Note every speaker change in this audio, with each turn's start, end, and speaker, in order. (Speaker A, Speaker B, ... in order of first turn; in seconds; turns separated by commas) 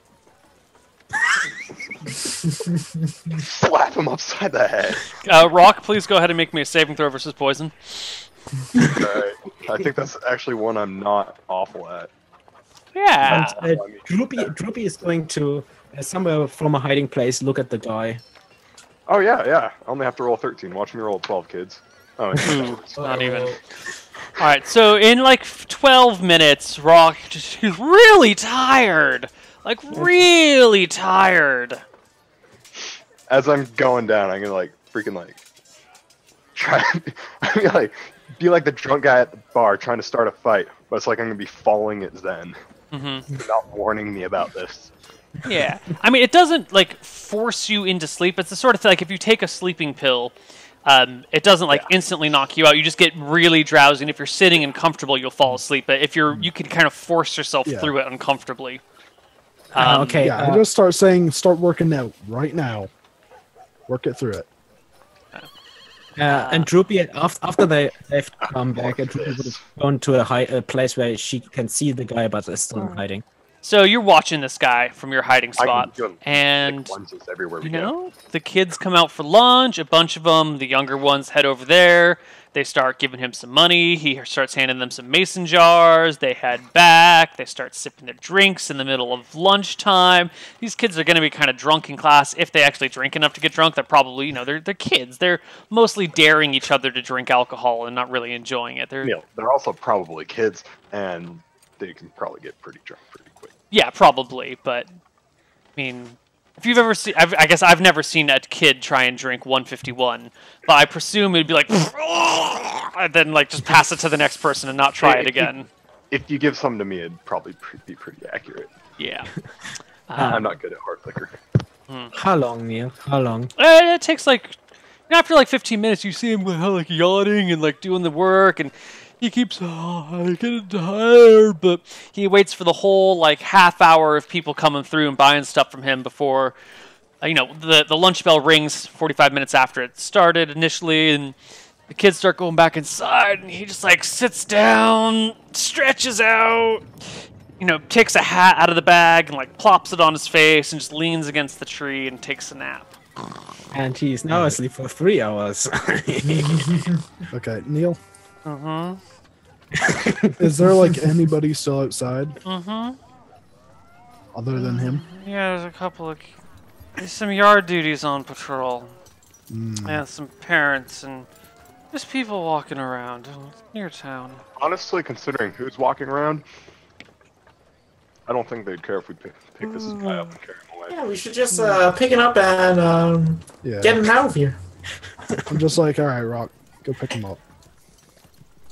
Speaker A: 3.4-5.1, Speaker B: 5.2-8.2, Speaker A: 8.8-12.1, Speaker B: 12.9-13.6, Speaker C: 13.2-18.2, Speaker A: 13.3-14.1, Speaker A: 19.1-23.4, Speaker B: 22.4-23.6, Speaker D: 23.0-23.6, Speaker B: 24.4-31.8, Speaker A: 33.3-35.4, Speaker A: 36.5-42.6, Speaker B: 42.9-43.2, Speaker A: 43.3-44.9, Speaker B: 45.4-50.3, Speaker B: 50.8-58.8, Speaker E: 57.6-57.9, Speaker B: 59.7-60.4, Speaker C: 59.7-60.7, Speaker E: 60.2-62.9, Speaker E: 63.9-64.5, Speaker C: 66.2-73.2, Speaker B: 66.3-66.7, Speaker A: 68.4-69.6, Speaker B: 73.6-76.9, Speaker A: 75.6-77.9, Speaker B: 77.6-99.1, Speaker A: 99.0-103.5, Speaker B: 103.7-104.9, Speaker B: 105.8-115.7, Speaker A: 115.0-115.5, Speaker A: 116.1-118.7, Speaker B: 119.0-119.3, Speaker B: 120.1-120.4, Speaker C: 120.2-120.4, Speaker A: 120.2-121.4, Speaker C: 122.1-123.5, Speaker B: 123.6-124.6, Speaker B: 125.1-136.6, Speaker B: 137.2-141.3, Speaker B: 141.9-146.8, Speaker B: 147.6-152.9, Speaker C: 153.7-156.9, Speaker E: 154.3-154.6, Speaker E: 157.3-158.0, Speaker B: 158.4-159.0, Speaker C: 159.7-160.7, Speaker E: 160.4-162.4, Speaker B: 162.4-163.0, Speaker E: 164.3-165.0, Speaker B: 164.8-166.3, Speaker B: 167.0-168.9, Speaker E: 169.5-170.0, Speaker B: 169.8-171.3, Speaker B: 171.9-174.4, Speaker A: 174.6-176.4, Speaker A: 178.3-180.9, Speaker B: 179.6-180.3, Speaker D: 180.9-184.6, Speaker E: 183.6-184.0, Speaker C: 185.3-185.6, Speaker E: 185.5-187.4